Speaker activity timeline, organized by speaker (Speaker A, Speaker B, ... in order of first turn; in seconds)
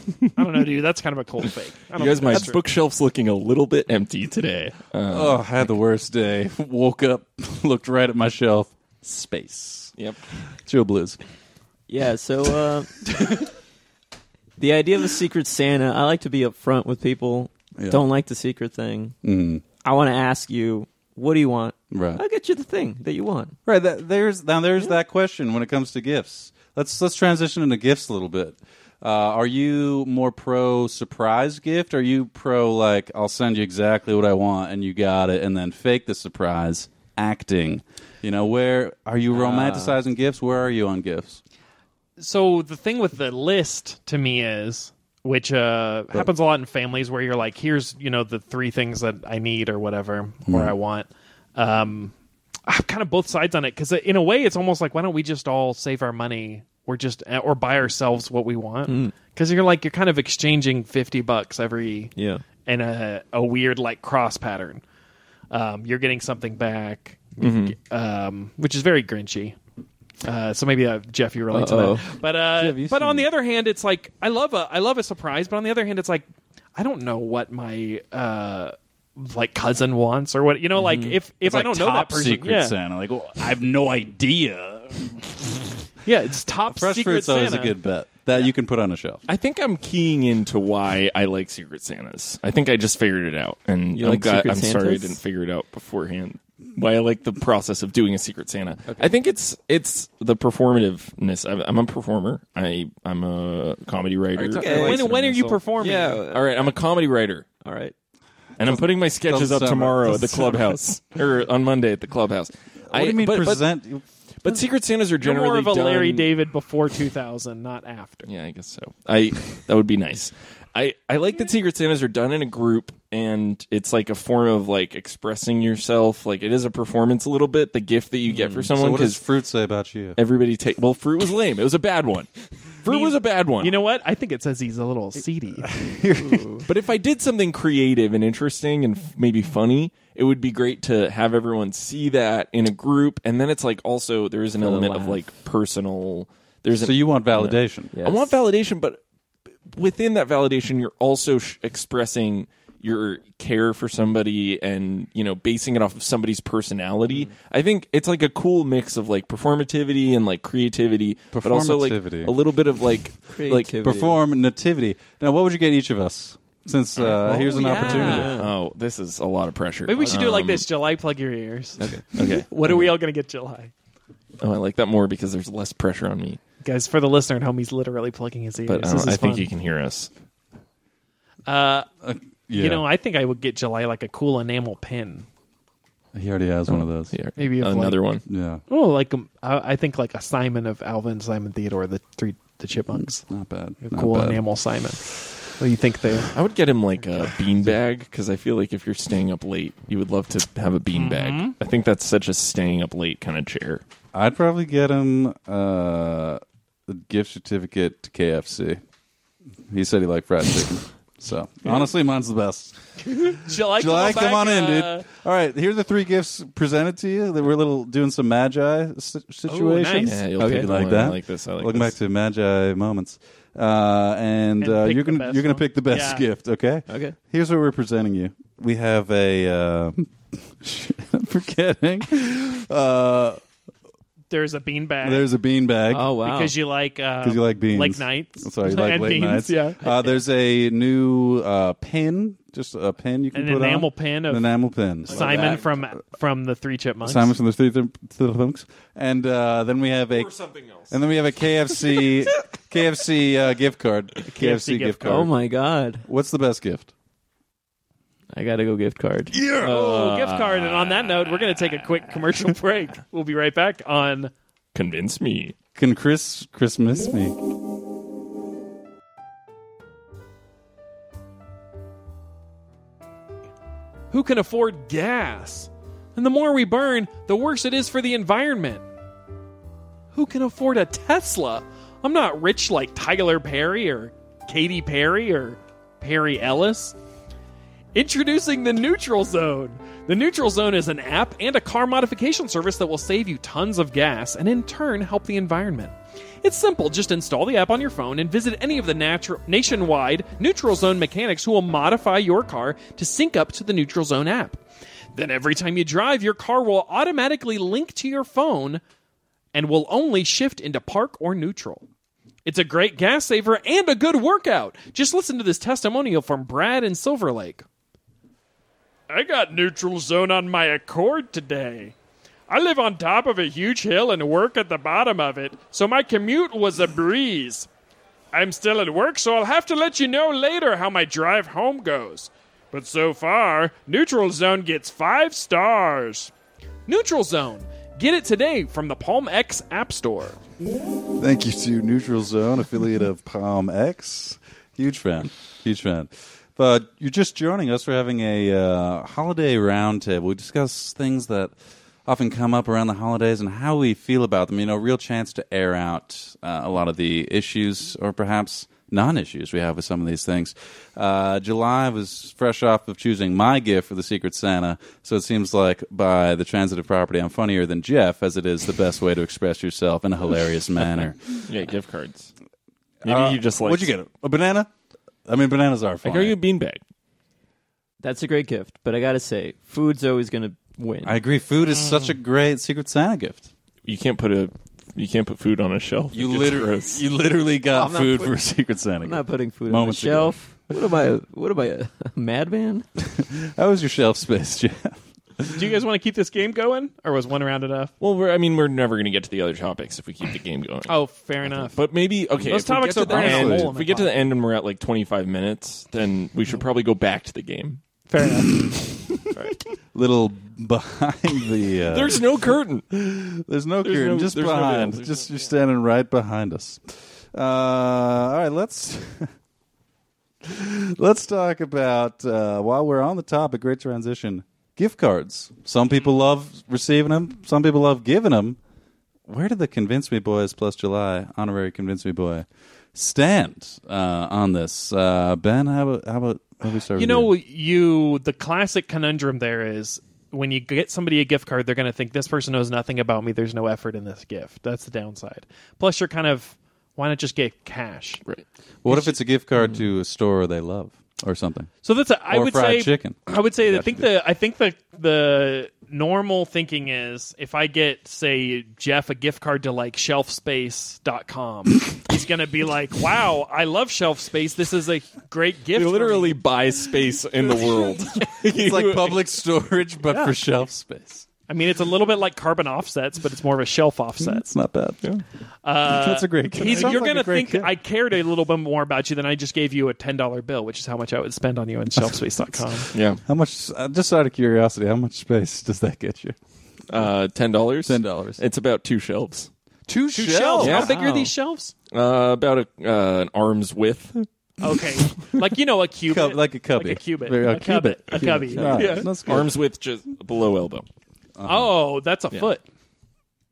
Speaker A: 0.3-2.6, 42.2-52.1, 52.7-62.1, 62.6-64.8, 65.5-69.6, 70.2-82.7, 86.0-87.8, 104.6-106.2, 115.2-118.3, 132.8-135.7, 167.4-168.4, 169.8-173.7, 176.6-179.5, 181.4-181.9, 182.5-185.3, 187.3-188.0, 188.7-193.2, 193.8-196.3, 200.9-201.6, 213.1-215.1, 219.5-220.2, 224.6-226.2, 234.3-235.3, 236.2-240.2, 243.3-244.5, 245.0-247.3, 254.3-255.3, 259.6-264.3, 274.1-278.8, 280.1-286.9, 287.9-304.6, 305.1-308.8, 309.5-311.8, 312.4-317.6, 319.1-321.9, 322.5-327.7, 328.3-336.3, 336.9-340.4, 395.5-397.9, 400.9-401.8, 402.4-404.1, 408.1-408.7, 436.9-448.2, 451.8-466.4, 470.1-470.4, 471.5-474.5, 475.6-482.9, 490.1-491.7, 494.6-499.1, 501.4-502.6
Speaker B: 1.9-5.5, 67.4-67.7, 89.3-105.6, 106.2-107.5, 108.6-113.6, 114.4-116.3, 118.3-129.2, 130.2-133.8, 136.6-149.0, 149.7-163.8, 166.9-170.7, 172.1-172.9, 174.4-176.4, 178.7-180.1, 186.7-188.2, 196.3-203.8, 220.0-221.9, 245.1-245.7, 250.1-251.0, 259.6-262.1, 264.7-265.5, 371.4-372.3, 373.0-373.9, 376.0-376.8, 383.8-387.0, 398.0-407.8, 411.9-413.1, 413.8-415.4, 465.7-469.3, 482.9-483.2, 486.9-489.5, 490.6-490.9, 491.9-494.3, 494.8-495.3, 498.6-500.9
Speaker C: 5.1-9.9, 10.6-11.2, 17.8-18.0, 19.2-19.6, 21.9-22.2, 23.6-41.4, 50.5-50.7, 72.5-73.3, 81.4-85.6, 86.7-89.2, 108.6-110.8, 112.9-114.5, 128.7-130.2, 135.6-136.6, 146.8-147.9, 161.3-162.3, 163.8-168.3, 182.0-182.8, 186.1-187.1, 188.3-188.6, 192.9-194.4, 204.1-208.8, 209.7-212.7, 213.5-233.4, 235.0-236.1, 237.2-245.6, 247.0-250.3, 250.9-255.3, 256.0-256.9, 259.3-259.7, 265.8-267.4, 341.1-351.5, 352.0-371.4, 373.0-374.7, 375.2-376.4, 381.0-383.5, 386.1-390.4, 393.1-395.6, 403.0-403.8, 409.9-412.2, 412.9-419.3, 420.4-428.6, 429.3-437.3, 448.8-451.7, 452.3-454.1, 468.4-471.3, 474.2-475.0, 475.8-477.7, 483.2-486.4, 487.8-488.4, 489.9-490.9, 496.1-499.5, 501.4-501.7
Speaker D: 11.9-13.1, 14.6-19.1, 19.8-23.6, 39.3-40.0, 58.9-59.1, 62.1-62.4, 71.5-72.0, 80.8-81.2, 93.9-95.2, 104.4-105.1, 105.8-106.7, 107.6-107.9, 128.3-128.7, 136.2-136.6, 144.6-145.2, 147.9-148.4, 163.3-164.2, 167.7-168.5, 220.4-220.7, 226.9-227.2, 235.9-236.6, 245.1-245.6, 255.0-256.1, 258.3-259.3, 378.0-381.2, 387.7-388.3, 389.0-392.9, 490.7-491.3